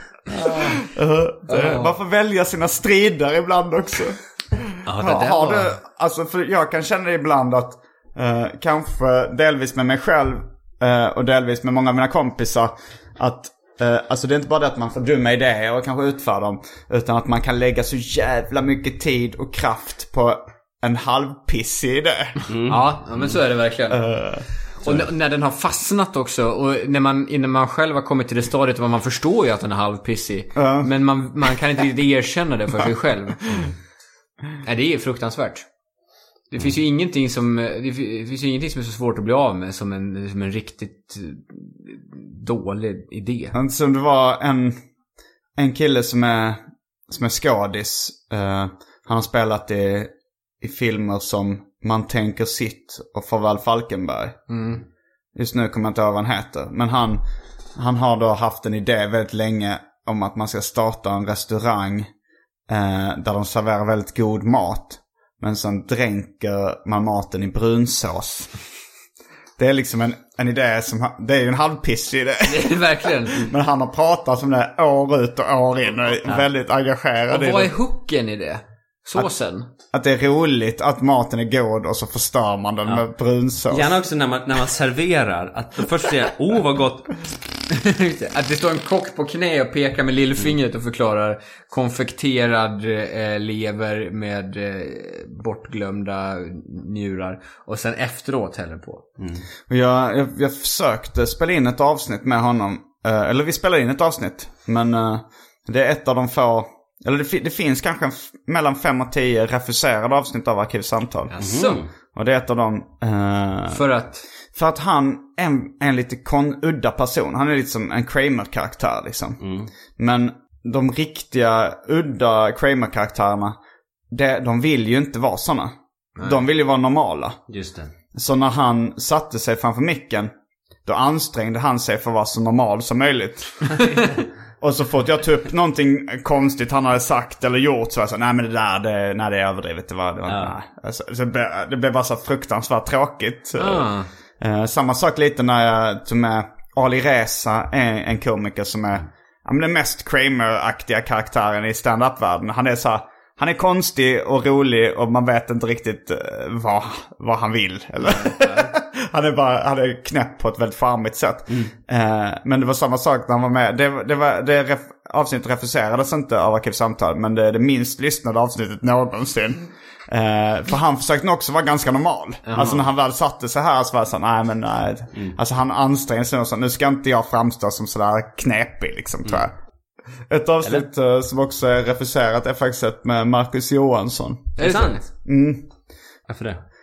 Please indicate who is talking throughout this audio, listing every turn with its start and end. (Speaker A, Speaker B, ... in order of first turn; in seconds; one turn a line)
Speaker A: 0.8-22.4
Speaker B: 1.5-1.9
Speaker B: 4.9-5.7
Speaker C: 22.5-23.3
Speaker B: 22.7-24.1
Speaker A: 23.9-24.5
Speaker B: 24.8-33.7
Speaker A: 30.6-30.9
Speaker B: 34.6-35.7
Speaker B: 36.5-43.5
Speaker A: 43.5-44.8
Speaker A: 45.6-54.4
Speaker B: 54.5-54.8
Speaker A: 55.4-57.2
Speaker A: 57.8-62.1
Speaker A: 62.7-68.5
Speaker A: 69.6-72.8
Speaker B: 72.5-73.5
Speaker A: 73.3-77.7
Speaker B: 77.3-79.7
Speaker A: 79.9-84.0
Speaker C: 83.7-87.2
Speaker B: 87.7-99.1
Speaker C: 99.2-99.4
Speaker A: 99.7-111.3
Speaker B: 111.3-111.8
Speaker C: 111.4-111.9
Speaker A: 112.1-113.9
Speaker B: 113.7-114.2
Speaker A: 114.5-119.4
Speaker C: 119.4-119.7
Speaker A: 120.0-123.6
Speaker A: 124.1-127.4
Speaker C: 127.5-127.9
Speaker A: 128.2-130.3
Speaker A: 130.9-133.8
Speaker A: 134.6-179.5
Speaker C: 140.3-140.5
Speaker B: 143.6-144.1
Speaker B: 158.1-158.7
Speaker B: 172.5-172.9
Speaker A: 180.3-184.7
Speaker C: 184.6-185.0
Speaker B: 184.6-185.0
Speaker A: 185.2-185.6
Speaker C: 186.3-186.6